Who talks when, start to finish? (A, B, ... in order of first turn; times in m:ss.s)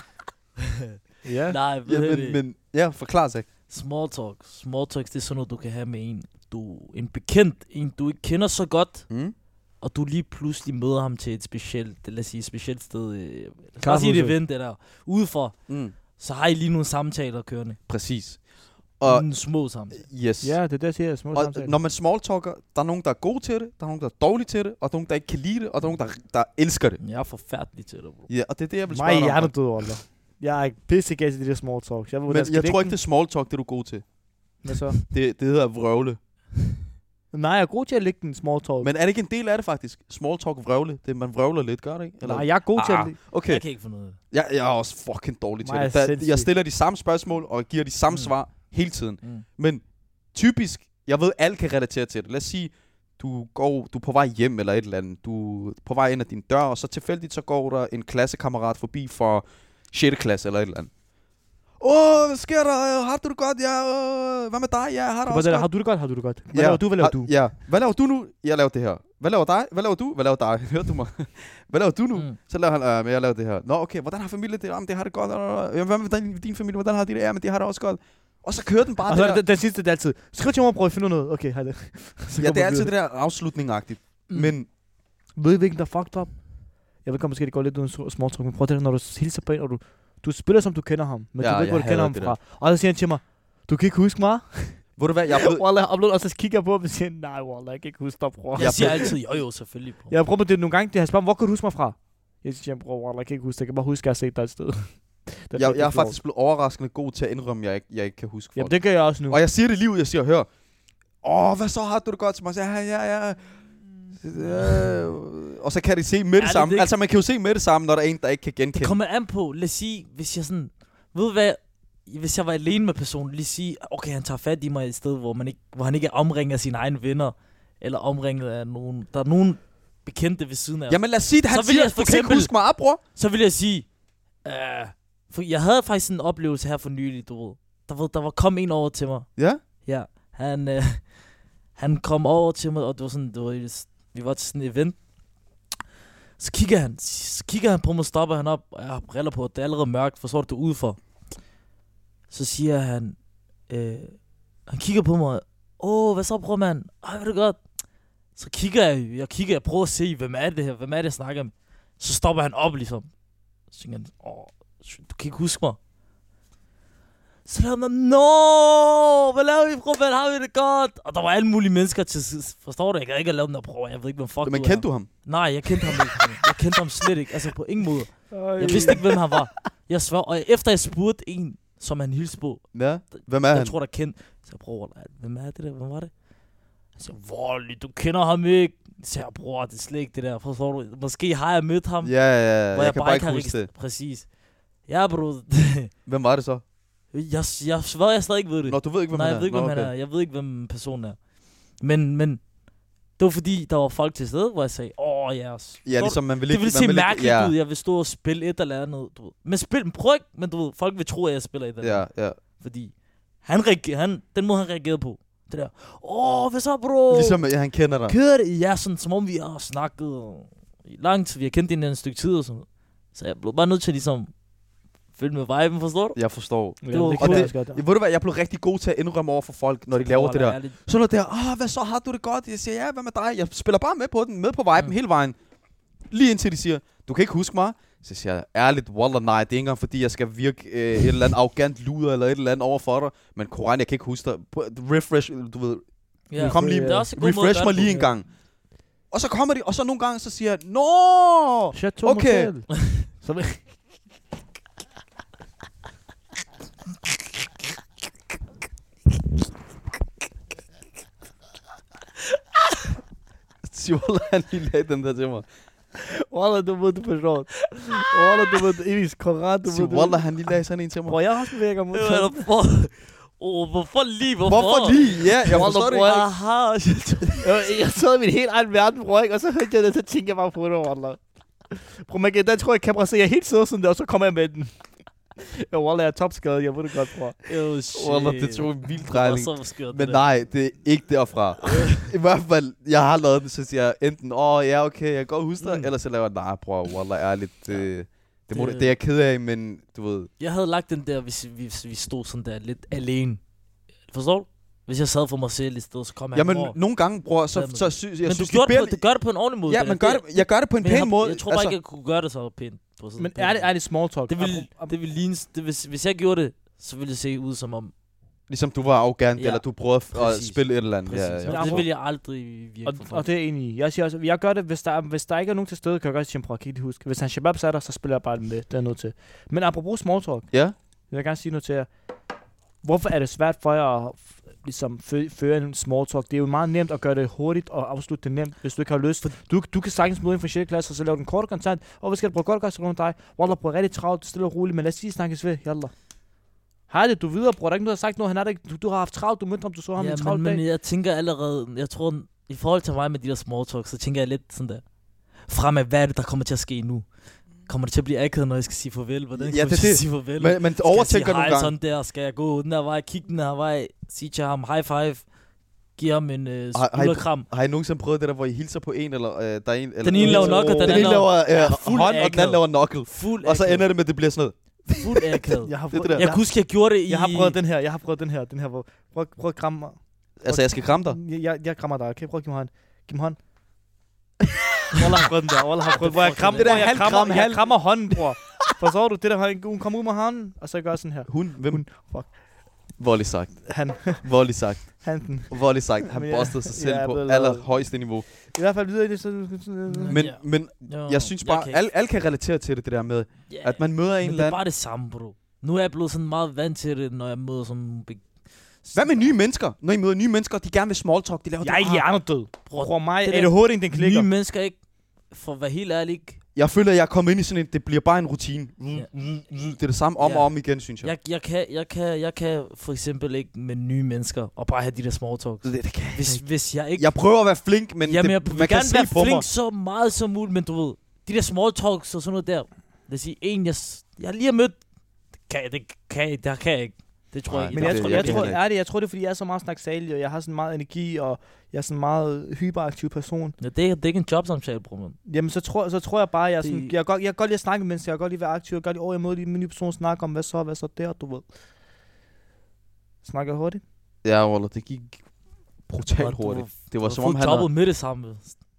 0:01.2-0:01.6 A
0:01.5-0:02.4 B
0:01.8-0:03.5 C
0:03.7-0:17.8 B
0:09.1-0:09.4 C
0:13.8-0:14.4 A
0:15.7-0:16.0 C
0:17.9-0:20.6 C
0:19.1-0:20.0 B
0:20.4-0:21.8 A
0:21.3-0:27.0 C
0:27.0-0:28.3 B
0:28.3-0:29.7 C
0:28.9-0:33.0 A
0:32.3-0:34.1 C
0:34.6-0:35.0 A
0:35.1-0:36.2 C
0:37.3-0:38.9 A
0:38.8-1:00.9 C
0:42.2-0:43.2 A
0:42.8-0:44.2 B
0:45.6-0:46.5 A
1:01.8-1:05.7 C
1:05.3-1:07.4 A
1:06.5-1:19.4 C
1:19.1-1:22.9 A
1:22.4-1:24.7 C
1:25.3-1:39.2 A
1:31.4-1:32.4 C
1:35.0-1:35.6 C
1:38.6-1:40.2 B
1:38.6-1:39.2 C
1:40.1-1:46.2 A
1:45.6-1:50.5 C
1:48.6-1:49.4 A
1:51.2-1:59.0 C
1:56.4-1:56.9 B
1:58.7-2:13.9 B
2:10.9-2:13.0 C
2:14.4-2:25.0 B
2:19.4-2:19.6 C
2:26.4-2:31.0 B
2:32.3-2:37.7 B
2:38.3-2:43.1 B
2:43.7-2:45.8 B
2:47.5-3:06.2 B
2:54.4-2:55.2 C
2:58.3-2:59.0 A
3:02.7-3:03.8 C
3:06.9-3:15.9 B
3:12.0-3:13.7 C
3:16.0-3:16.6 C
3:17.1-3:22.5 B
3:18.7-3:19.9 C
3:23.1-3:37.5 B
3:25.8-3:27.6 C
3:31.8-3:32.4 C
3:37.1-3:38.2 C
3:38.1-3:44.4 B
3:45.1-3:46.2 B
3:46.2-3:55.4 C
3:46.8-3:47.8 A
3:46.8-3:47.6 B
3:49.9-3:50.8 B
3:56.1-4:08.3 C
4:06.3-4:08.1 B
4:06.4-4:07.1 A
4:09.1-4:12.5 C
4:11.7-4:13.6 A
4:23.6-4:25.5 C
4:26.0-4:30.4 A
4:29.7-4:31.2 C
4:31.1-4:32.5 A
4:31.9-4:37.5 B
4:34.5-4:36.1 C
4:35.4-4:36.3 A
4:37.4-4:44.8 A
4:45.4-4:47.5 A
4:47.5-4:50.4 B
4:47.9-5:00.3 C
4:55.6-4:55.9 B
4:58.5-4:58.9 B
5:00.4-5:03.4 B
5:04.1-5:06.8 B
5:06.3-5:09.0 C
5:07.5-5:17.9 B
5:09.7-5:11.8 C
5:13.2-5:15.0 A
5:18.5-5:21.9 C
5:19.4-5:23.2 B
5:21.5-5:22.0 A
5:22.8-5:30.5 A
5:31.1-5:31.9 A
5:32.8-5:45.9 A
5:46.9-5:50.6 A
5:50.0-5:54.9 B
5:55.4-6:05.3 B
5:59.4-6:01.7 C
6:06.0-6:07.5 B
6:06.7-6:16.3 C
6:10.0-6:12.3 B
6:10.1-6:12.6 A
6:13.0-6:13.9 B
6:15.0-6:17.6 B
6:15.6-6:23.4 A
6:20.4-6:21.2 C
6:25.0-6:32.4 A
6:26.0-6:27.0 B
6:26.6-6:28.2 C
6:31.3-6:31.8 C
6:33.0-6:38.3 C
6:33.7-6:34.4 A
6:35.0-6:40.3 A
6:39.9-6:41.8 B
6:40.1-6:44.6 C
6:43.5-6:49.4 B
6:48.9-6:52.1 C
6:51.6-6:54.3 A
6:52.7-6:54.8 B
6:55.3-6:56.4 B
6:56.6-7:01.1 C
7:00.2-7:07.2 B
7:05.6-7:09.5 C
7:08.0-7:14.8 B
7:15.5-7:18.6 B
7:17.5-7:18.6 C
7:17.7-7:23.6 A
7:23.6-7:25.2 B
7:25.3-7:31.5 A
7:26.6-7:26.9 B
7:33.2-7:33.8 A
7:34.2-7:35.3 C
7:35.9-7:37.7 C
7:36.2-7:38.6 B